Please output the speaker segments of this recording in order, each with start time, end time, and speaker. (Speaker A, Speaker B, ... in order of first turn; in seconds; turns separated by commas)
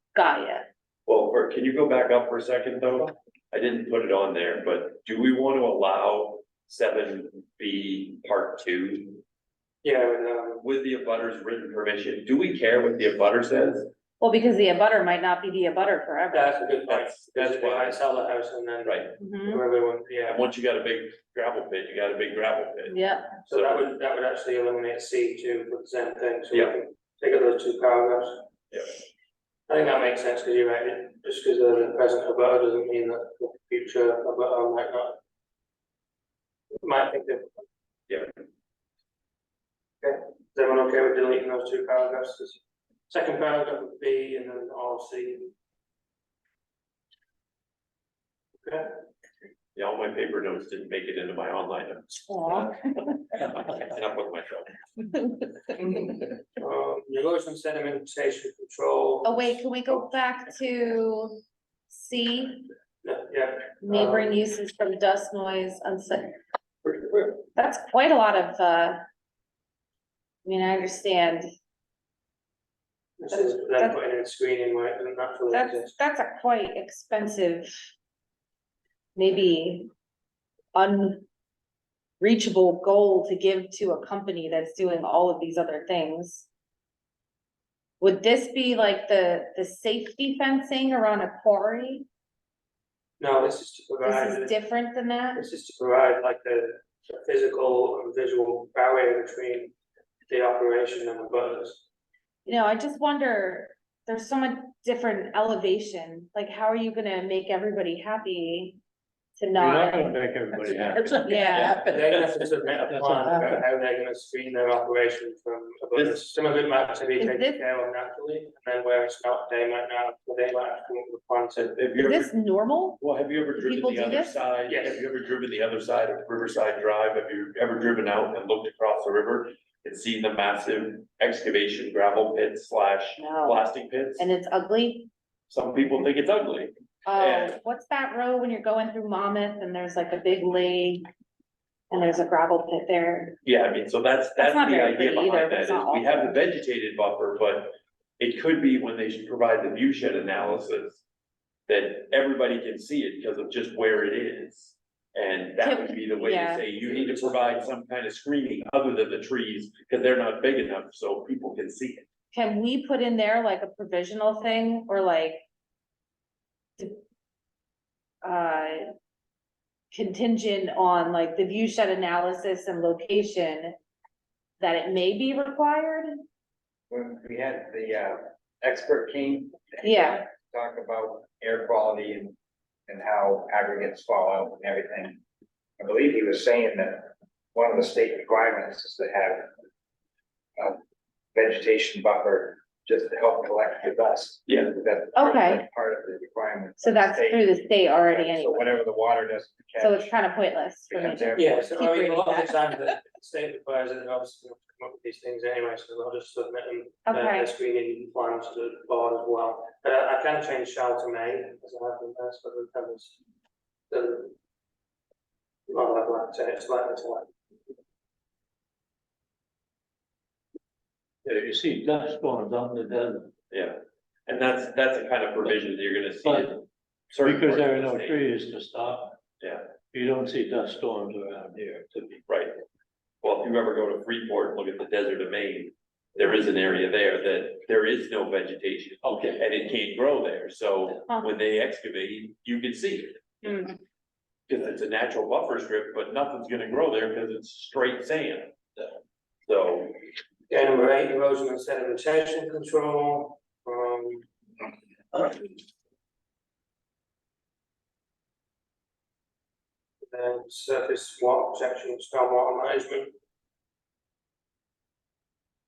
Speaker A: 0.1-0.7, Speaker B: 1.1-9.2, Speaker C: 9.8-10.6, Speaker B: 10.6-13.9, Speaker A: 14.2-16.6, Speaker C: 16.3-20.4, Speaker B: 16.9-18.1, Speaker B: 18.9-19.1, Speaker A: 19.2-19.6, Speaker B: 20.3-22.9, Speaker A: 22.9-23.4, Speaker C: 23.5-28.5, Speaker B: 23.5-23.9, Speaker B: 28.7-29.0, Speaker C: 29.7-35.2, Speaker C: 36.8-37.6, Speaker C: 40.0-45.5, Speaker C: 48.6-48.9, Speaker B: 49.8-54.8, Speaker A: 52.3-52.8, Speaker C: 56.6-59.6, Speaker A: 59.2-62.7, Speaker C: 63.0-64.4, Speaker A: 63.8-66.4, Speaker C: 66.9-67.2, Speaker A: 67.5-69.0, Speaker A: 70.5-71.5, Speaker C: 73.2-75.9, Speaker A: 73.3-74.0, Speaker A: 75.5-77.7, Speaker A: 79.2-79.9, Speaker A: 80.7-81.2, Speaker A: 82.2-86.5, Speaker A: 88.0-92.1, Speaker C: 93.2-94.5, Speaker A: 94.0-95.4, Speaker C: 95.3-99.7, Speaker C: 100.3-101.8, Speaker A: 102.5-108.8, Speaker A: 109.4-110.2, Speaker D: 109.5-113.7, Speaker A: 110.7-111.8, Speaker C: 111.8-121.8, Speaker A: 117.2-117.6, Speaker B: 121.8-122.3, Speaker A: 122.0-123.0, Speaker B: 123.0-134.3, Speaker A: 123.6-124.4, Speaker C: 124.7-125.0, Speaker A: 133.2-133.6, Speaker A: 134.2-135.1, Speaker B: 135.5-137.6, Speaker A: 137.1-141.1, Speaker A: 141.9-143.4, Speaker B: 143.4-151.0, Speaker A: 144.4-146.4, Speaker B: 151.7-162.1, Speaker A: 155.6-156.7, Speaker C: 156.8-157.6, Speaker A: 162.3-165.4, Speaker A: 168.2-168.9, Speaker A: 169.9-173.8, Speaker A: 174.6-176.1, Speaker E: 176.9-182.3, Speaker A: 179.8-180.3, Speaker E: 182.9-185.2, Speaker E: 185.8-189.5, Speaker E: 191.3-200.2, Speaker B: 194.5-194.7, Speaker A: 195.2-195.6, Speaker A: 196.8-198.8, Speaker A: 199.8-202.7, Speaker E: 200.9-201.7, Speaker C: 201.3-213.2, Speaker A: 207.1-207.5, Speaker C: 213.9-214.3, Speaker C: 215.7-217.3, Speaker D: 221.2-223.3, Speaker B: 224.3-228.2, Speaker D: 226.2-226.6, Speaker D: 227.2-229.2, Speaker D: 229.9-232.2, Speaker B: 232.3-232.6, Speaker B: 233.2-243.2, Speaker D: 239.0-239.5, Speaker B: 244.5-248.6, Speaker B: 249.4-250.0, Speaker C: 250.5-254.3, Speaker C: 260.1-263.1